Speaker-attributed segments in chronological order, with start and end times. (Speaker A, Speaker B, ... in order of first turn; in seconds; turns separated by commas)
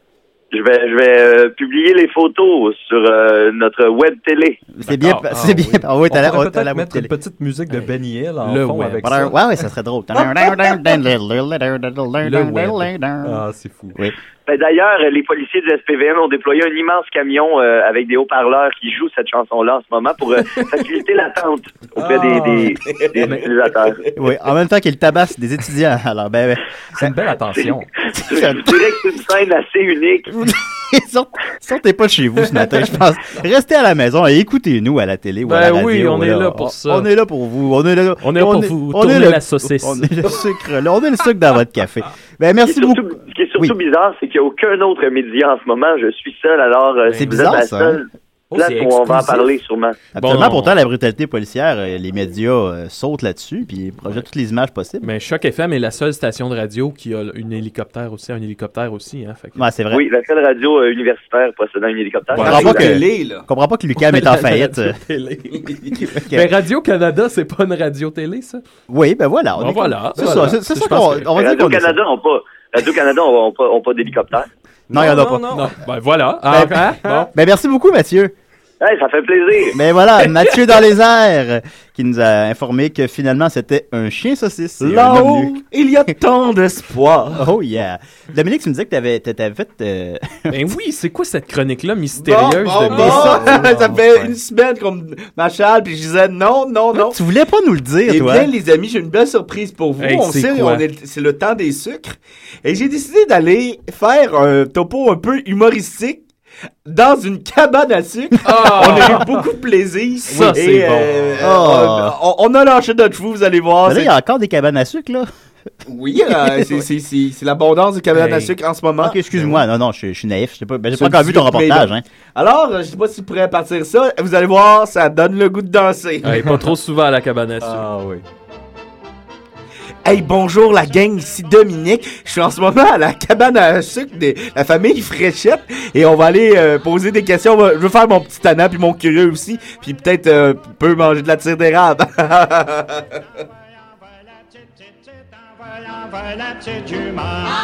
Speaker A: 0.5-4.6, Speaker B: 4.7-7.1, Speaker C: 4.9-5.5, Speaker D: 5.3-9.3, Speaker C: 8.4-9.3, Speaker B: 9.0-13.4, Speaker E: 10.2-10.8, Speaker C: 12.2-12.9, Speaker D: 13.2-13.9, Speaker A: 14.5-24.0, Speaker D: 22.0-23.5, Speaker E: 22.1-24.1, Speaker B: 24.1-27.1, Speaker D: 26.9-27.9, Speaker B: 28.2-28.9, Speaker A: 28.2-30.3, Speaker B: 30.3-43.0, Speaker C: 35.4-37.0, Speaker C: 38.2-40.1, Speaker A: 42.6-50.0, Speaker B: 47.1-48.0, Speaker C: 48.5-49.4, Speaker B: 50.1-55.1, Speaker C: 50.2-50.7, Speaker C: 55.0-59.6, Speaker B: 59.5-60.0, Speaker A: 59.9-62.9, Speaker E: 62.4-63.4, Speaker B: 62.4-65.0, Speaker C: 64.0-65.7, Speaker E: 65.7-65.9, Speaker B: 66.0-66.5, Speaker C: 66.3-68.6, Speaker B: 68.9-72.0, Speaker C: 69.6-71.3, Speaker D: 70.2-70.5, Speaker A: 71.3-74.5, Speaker D: 74.9-75.7, Speaker B: 74.9-75.5, Speaker C: 75.5-77.3, Speaker B: 76.5-76.8, Speaker B: 77.3-78.3, Speaker A: 78.8-79.8, Speaker B: 79.7-85.6, Speaker E: 84.8-87.4, Speaker B: 87.3-90.6, Speaker C: 90.5-93.6, Speaker E: 92.2-97.2, Speaker D: 92.9-94.2, Speaker B: 96.9-98.5, Speaker E: 98.0-106.3, Speaker C: 100.0-100.8, Speaker E: 106.8-114.1, Speaker C: 108.4-109.2, Speaker C: 110.3-111.0, Speaker D: 110.4-111.4, Speaker B: 111.4-112.1, Speaker B: 113.8-115.3, Speaker E: 115.9-119.6, Speaker B: 116.4-116.7, Speaker C: 118.1-118.5, Speaker B: 119.0-122.0, Speaker E: 120.9-126.4, Speaker C: 126.2-127.9, Speaker D: 127.6-128.2, Speaker E: 130.0-143.0